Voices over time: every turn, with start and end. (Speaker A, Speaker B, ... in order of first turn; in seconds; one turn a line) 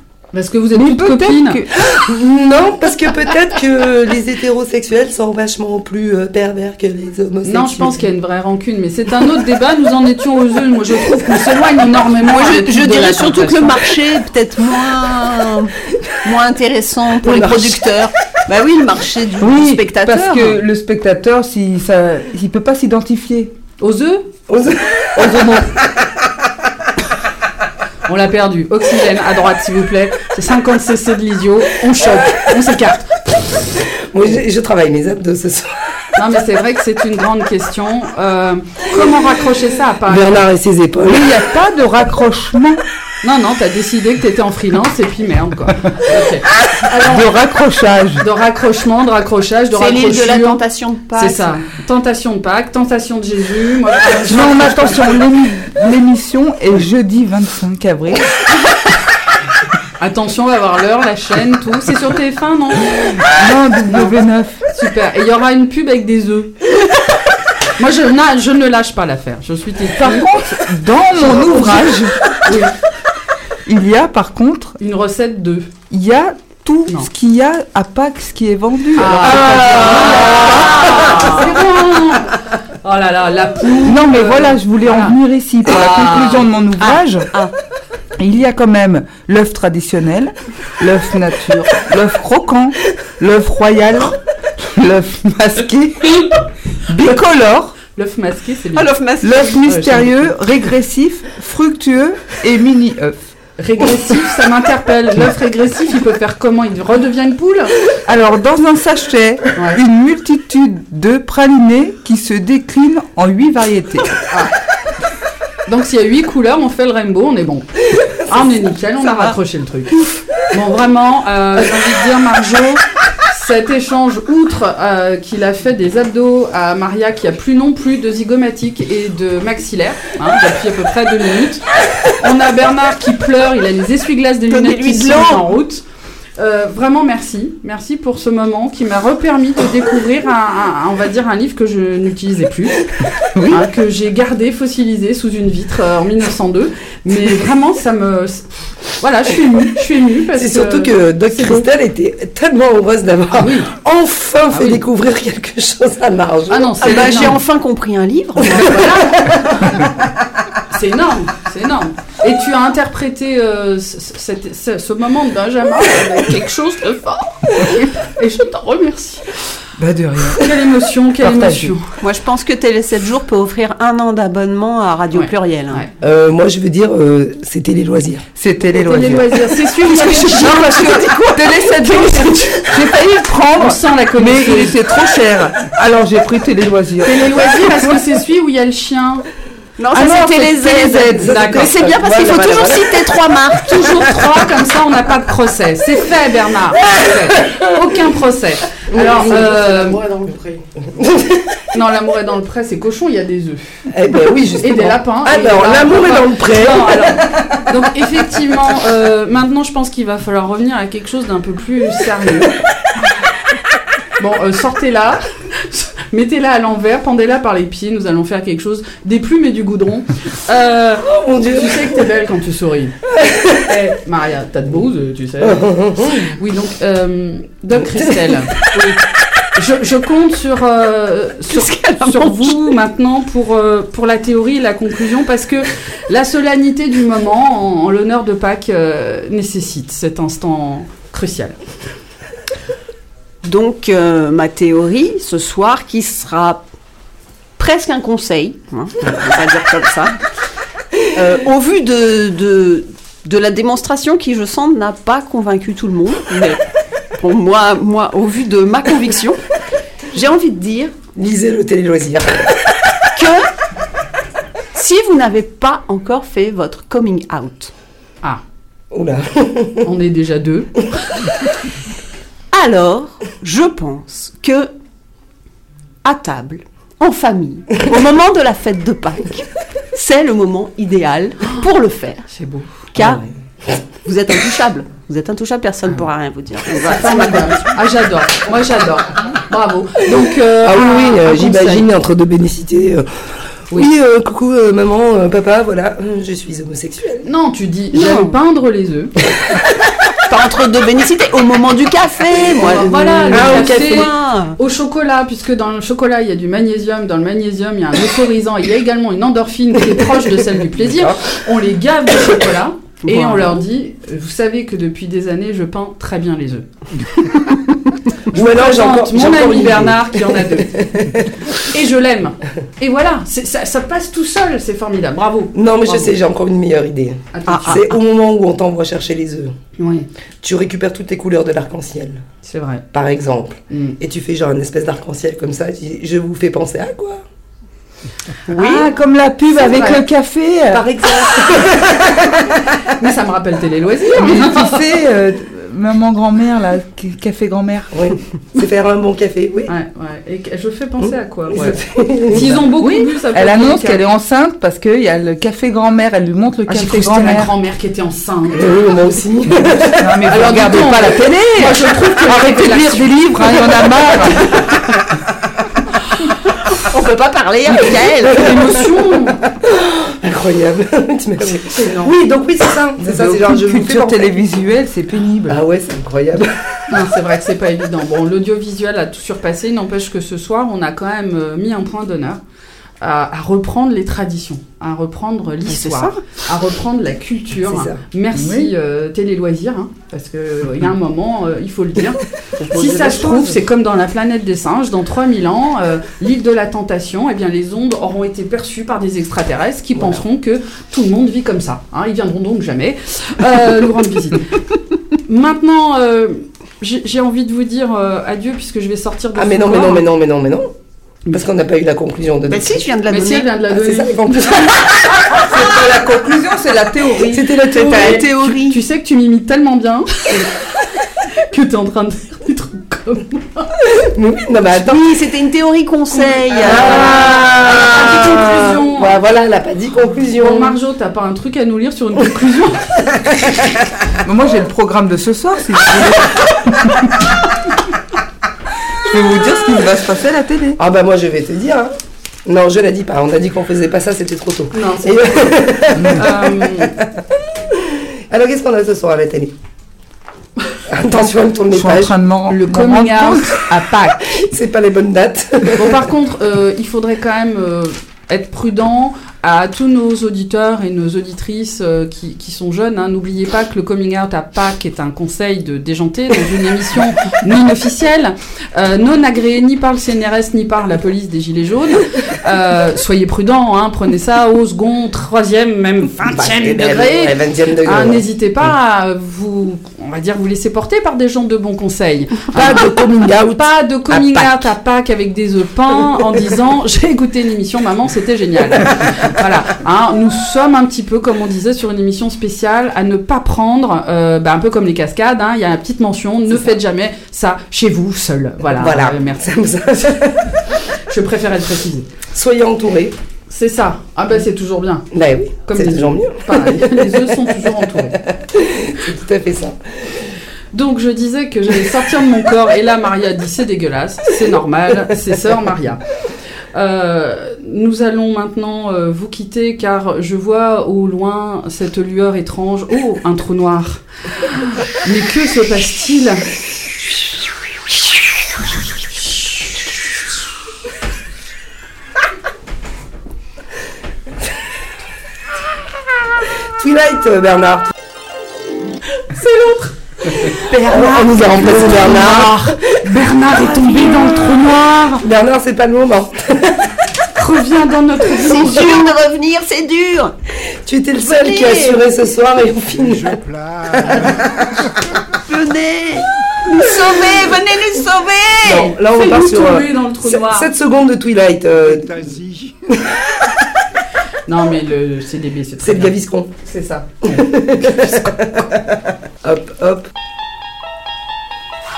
Speaker A: 0.3-1.6
Speaker B: 0.7-1.9
Speaker C: 1.7-8.0
Speaker A: 7.4-13.8
Speaker D: 12.2-20.6
Speaker C: 17.2-17.8
Speaker B: 19.4-23.5
Speaker A: 23.8-24.3
Speaker C: 24.5-26.1
Speaker A: 28.1-33.5
Speaker C: 32.0-32.4
Speaker C: 33.7-36.0
Speaker A: 36.1-40.4
Speaker C: 40.0-41.4
Speaker B: 41.0-42.8
Speaker A: 43.2-47.3
Speaker B: 46.9-48.2
Speaker A: 48.2-50.6
Speaker D: 49.7-51.6
Speaker A: 51.1-55.2
Speaker B: 54.2-58.4
Speaker A: 60.0-63.3
Speaker B: 63.3-64.6
Speaker A: 63.9-64.1
Speaker A: 64.7-66.6
Speaker A: 67.8-72.7
Speaker B: 69.9-72.2
Speaker B: 73.7-74.8
Speaker A: 74.8-75.7
Speaker B: 75.9-81.5
Speaker A: 79.0-86.5
Speaker B: 83.8-87.3
Speaker D: 86.8-87.5
Speaker B: 88.2-97.8
Speaker A: 98.0-98.9
Speaker D: 98.8-99.6
Speaker B: 99.2-103.2
Speaker A: 99.7-100.3
Speaker A: 103.6-107.7
Speaker B: 108.0-114.2
Speaker A: 115.7-117.7
Speaker C: 118.0-118.3
Speaker A: 118.3-135.8
Speaker D: 134.5-135.5
Speaker A: 136.4-142.9
Speaker B: 143.3-143.7
Speaker A: 143.5-151.6
Speaker C: 150.3-156.9
Speaker A: 153.4-153.7
Speaker A: 154.5-154.8
Speaker A: 156.5-157.4
Speaker D: 156.8-159.1
Speaker A: 158.5-159.7
Speaker C: 158.7-159.3
Speaker A: 160.7-169.3
Speaker B: 169.8-170.5
Speaker A: 170.4-171.8
Speaker B: 171.2-171.7
Speaker D: 172.0-175.9
Speaker A: 175.1-175.9
Speaker C: 176.0-178.3
Speaker B: 178.4-187.1
Speaker A: 178.8-181.1
Speaker C: 178.8-179.3
Speaker D: 180.3-182.2
Speaker A: 183.6-184.8
Speaker A: 187.0-189.3
Speaker D: 189.8-194.1
Speaker B: 189.9-191.4
Speaker C: 191.2-193.1
Speaker A: 191.3-191.7
Speaker A: 193.7-200.0
Speaker C: 197.3-197.6
Speaker C: 198.9-199.2
Speaker D: 198.9-200.7
Speaker C: 200.9-201.6
Speaker A: 201.7-203.8
Speaker C: 203.9-207.5
Speaker A: 204.6-212.6
Speaker A: 214.2-223.0
Speaker C: 221.0-222.0
Speaker C: 223.1-223.7
Speaker A: 223.6-228.7
Speaker C: 225.4-226.4
Speaker C: 227.8-228.4
Speaker A: 229.6-241.6
Speaker D: 231.5-232.7
Speaker D: 243.4-246.6
Speaker D: 247.6-250.2
Speaker D: 251.1-256.6
Speaker D: 257.1-259.4
Speaker D: 260.1-260.9
Speaker C: 261.1-262.6
Speaker D: 263.1-263.5
Speaker D: 264.7-267.7
Speaker C: 268.9-269.9
Speaker A: 269.8-271.2
Speaker D: 272.5-274.7
Speaker D: 276.0-282.3
Speaker A: 282.3-282.8
Speaker D: 282.9-283.2
Speaker C: 283.0-283.3
Speaker D: 284.1-287.7
Speaker A: 286.8-291.9
Speaker C: 290.6-293.1
Speaker C: 293.7-297.3
Speaker A: 297.2-299.1
Speaker D: 297.9-298.3
Speaker D: 300.2-304.6
Speaker A: 302.6-316.7
Speaker C: 303.3-304.1
Speaker C: 310.8-311.3
Speaker D: 313.0-313.6
Speaker C: 318.3-321.5
Speaker A: 318.3-320.8
Speaker A: 321.6-326.1
Speaker C: 325.6-329.6
Speaker A: 327.3-327.9
Speaker D: 327.5-327.9
Speaker A: 329.8-330.1
Speaker C: 330.4-332.2
Speaker A: 332.4-332.8
Speaker C: 332.9-337.2
Speaker A: 333.7-334.0
Speaker A: 338.5-338.9
Speaker B: 338.5-340.9
Speaker A: 339.5-340.1
Speaker C: 340.7-342.8
Speaker A: 343.0-344.8
Speaker B: 344.1-347.9
Speaker C: 347.9-349.7
Speaker A: 349.7-354.0
Speaker C: 351.0-352.6
Speaker B: 352.4-357.5
Speaker A: 356.6-358.7
Speaker C: 358.5-360.2
Speaker B: 359.8-364.5
Speaker A: 360.3-363.6
Speaker D: 366.7-368.4
Speaker C: 368.2-368.8
Speaker A: 368.3-369.4
Speaker C: 369.5-374.5
Speaker A: 371.7-372.1
Speaker B: 373.0-375.6
Speaker C: 375.5-377.0
Speaker A: 376.9-382.4
Speaker A: 383.0-404.6
Speaker D: 385.6-386.2
Speaker C: 387.6-388.0
Speaker B: 388.3-388.7
Speaker B: 392.6-393.6
Speaker A: 405.3-410.1
Speaker C: 409.3-410.7
Speaker C: 411.3-412.8
Speaker D: 412.5-413.5
Speaker A: 413.1-414.6
Speaker C: 413.7-415.2
Speaker B: 415.3-418.5
Speaker C: 417.2-418.3
Speaker A: 417.7-420.7
Speaker D: 418.0-418.7
Speaker A: 421.4-423.7
Speaker C: 423.9-425.0
Speaker D: 424.8-427.2
Speaker A: 426.1-429.2
Speaker C: 426.6-430.8
Speaker A: 430.4-433.2
Speaker B: 434.2-437.2
Speaker B: 439.0-440.8
Speaker C: 440.8-441.9
Speaker C: 442.4-449.5
Speaker A: 444.7-445.5
Speaker B: 445.9-446.2
Speaker A: 446.1-446.9
Speaker C: 450.9-452.2
Speaker B: 451.7-453.6
Speaker A: 452.5-454.3
Speaker C: 454.2-456.0
Speaker A: 455.8-482.9
Speaker C: 476.2-478.2
Speaker C: 482.5-484.7
Speaker A: 483.6-499.5
Speaker C: 498.7-500.6
Speaker A: 501.1-502.1
Speaker C: 502.3-503.1
Speaker A: 503.5-505.1
Speaker C: 505.1-507.1
Speaker A: 505.6-508.2
Speaker C: 508.1-510.3
Speaker A: 510.7-516.0
Speaker A: 516.7-524.0
Speaker A: 524.9-526.5
Speaker C: 536.6-537.9
Speaker A: 539.3-545.2
Speaker C: 540.5-542.7
Speaker C: 543.8-544.3
Speaker C: 545.2-546.9
Speaker A: 547.4-549.0
Speaker D: 548.4-550.3
Speaker C: 550.7-553.4
Speaker D: 551.2-552.0
Speaker E: 552.9-555.2
Speaker C: 554.0-554.6
Speaker D: 555.5-558.9
Speaker C: 558.6-562.1
Speaker A: 559.1-560.7
Speaker E: 561.8-562.8
Speaker C: 562.9-563.4
Speaker A: 564.5-567.4
Speaker C: 565.8-566.5
Speaker C: 567.2-570.1